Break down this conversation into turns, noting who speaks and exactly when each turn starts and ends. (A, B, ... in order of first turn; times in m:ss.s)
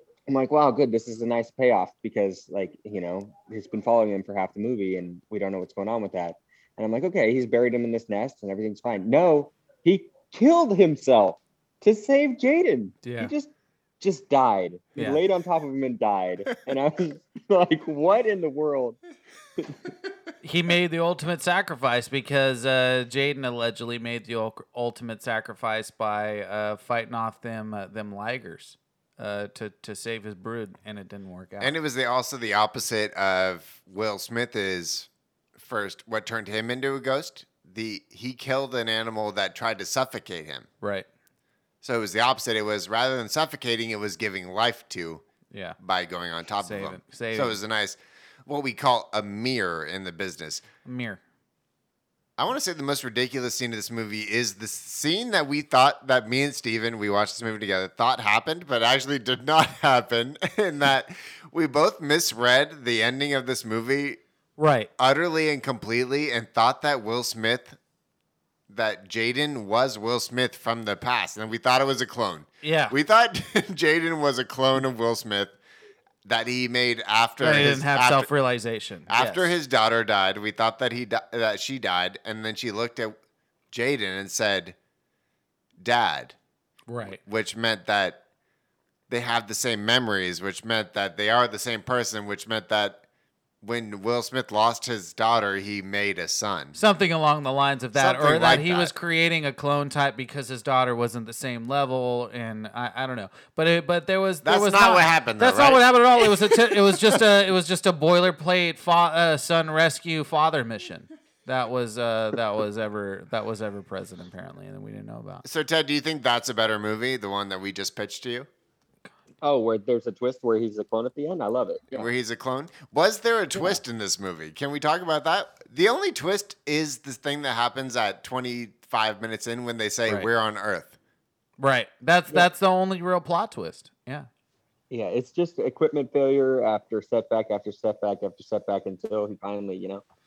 0:00.3-0:19.0 A
0:13.0-0:13.3 B
0:19.6-0:19.9 A
0:20.4-0:31.7 B
0:31.6-0:40.7 C
0:40.8-0:41.1 B
0:41.8-0:45.2 C
0:45.5-0:45.8 B
0:45.8-0:50.6 C
0:46.6-0:47.6 B
0:50.8-0:51.2 B
0:52.4-1:04.2 C
1:04.6-1:04.9 B
1:05.0-1:07.8 C
1:08.7-1:15.5 C
1:12.6-1:12.9 B
1:16.2-1:18.3 C
1:17.4-1:19.5 B
1:19.1-1:23.2 C
1:23.7-1:24.8 C
1:25.8-1:26.4 C
1:26.9-1:27.2 B
1:27.0-1:28.2 C
1:29.1-1:33.0 C
1:33.6-1:36.8 C
1:36.7-1:55.4 B
1:37.9-1:38.9 C
1:44.4-1:47.2 C
1:55.4-1:58.5 C
1:59.4-2:02.1 A
2:01.9-2:11.0 C
2:11.6-2:14.3 B
2:14.9-2:20.0 A